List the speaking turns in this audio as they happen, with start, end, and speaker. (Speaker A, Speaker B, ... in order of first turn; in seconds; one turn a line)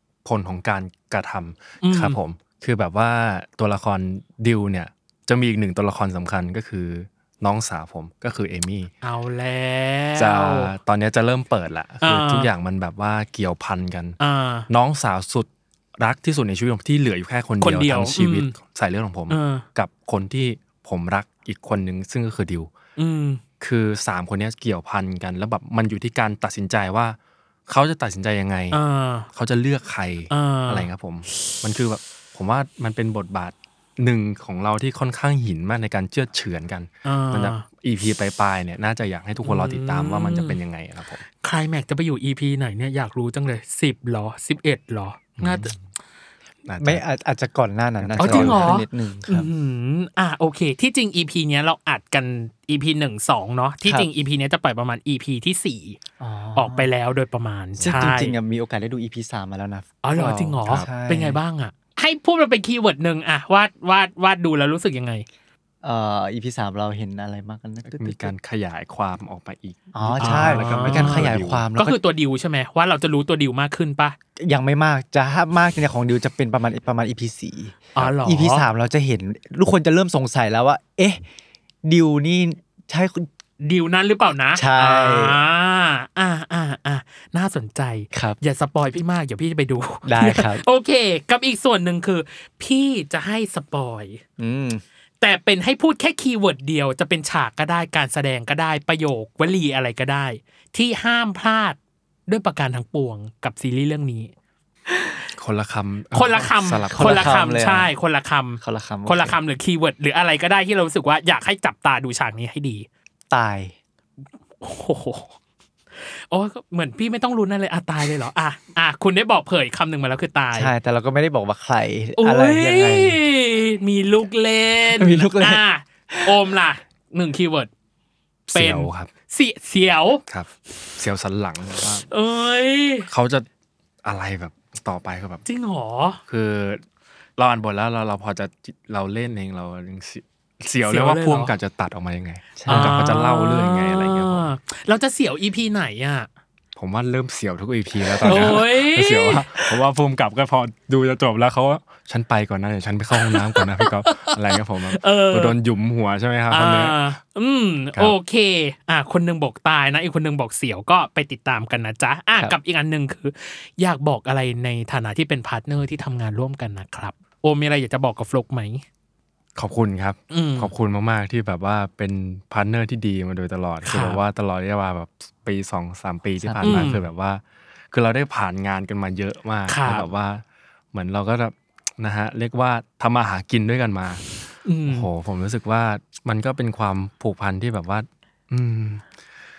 Speaker A: 0.2-8.9
Speaker B: 1.8-2.2
Speaker B: 9.0-10.7
Speaker A: 10.2-14.2
Speaker B: 12.0-12.5
Speaker B: 14.2-14.7
Speaker A: 14.7-22.7
Speaker B: 17.6-18.5
Speaker B: 19.3-19.6
Speaker B: 23.0-23.4
Speaker A: 23.6-27.2
Speaker A: 27.7-28.8
Speaker B: 28.7-29.3
Speaker A: 29.3-41.2
Speaker B: 30.3-30.9
Speaker B: 37.0-37.6
Speaker B: 39.4-40.6
Speaker B: 41.4-45.7
Speaker A: 45.4-45.8
Speaker A: 46.6-47.0
Speaker C: 46.8-49.5
Speaker A: 48.0-48.8
Speaker B: 48.2-56.0
Speaker C: 56.2-56.9
Speaker B: 56.5-58.4
Speaker C: 57.8-61.4
Speaker B: 60.0-65.2
Speaker C: 65.8-68.3
Speaker A: 67.9-71.6
Speaker C: 69.9-72.0
Speaker B: 70.2-74.2
Speaker C: 74.4-81.2
Speaker B: 77.9-78.7
Speaker C: 81.8-83.3
Speaker B: 83.6-94.2
Speaker C: 84.5-85.4
Speaker C: 88.1-88.4
Speaker C: 90.0-90.6
Speaker C: 94.4-94.8
Speaker B: 95.2-101.8
Speaker B: 102.3-104.3
Speaker B: 104.9-105.2
Speaker A: 105.4-107.4
Speaker B: 106.1-112.9
Speaker C: 106.4-107.9
Speaker C: 108.6-109.4
Speaker C: 113.3-113.7
Speaker B: 114.6-115.3
Speaker B: 116.0-120.7
Speaker C: 120.5-123.2
Speaker B: 122.2-127.7
Speaker C: 124.9-126.4
Speaker B: 128.5-130.2
Speaker A: 128.5-129.1
Speaker A: 130.3-132.1
Speaker B: 132.1-133.1
Speaker A: 133.1-133.4
Speaker A: 134.0-135.4
Speaker B: 135.4-136.2
Speaker A: 136.3-136.8
Speaker A: 137.4-144.5
Speaker B: 140.9-141.5
Speaker C: 142.6-143.0
Speaker B: 142.7-146.3
Speaker A: 146.8-157.0
Speaker B: 148.1-149.8
Speaker B: 153.2-154.3
Speaker B: 154.9-155.6
Speaker B: 156.5-168.8
Speaker A: 169.6-184.3
Speaker B: 170.3-170.7
Speaker B: 173.8-174.2
Speaker C: 176.4-176.9
Speaker B: 176.6-177.0
Speaker B: 179.7-180.1
Speaker B: 184.6-185.1
Speaker A: 184.9-189.1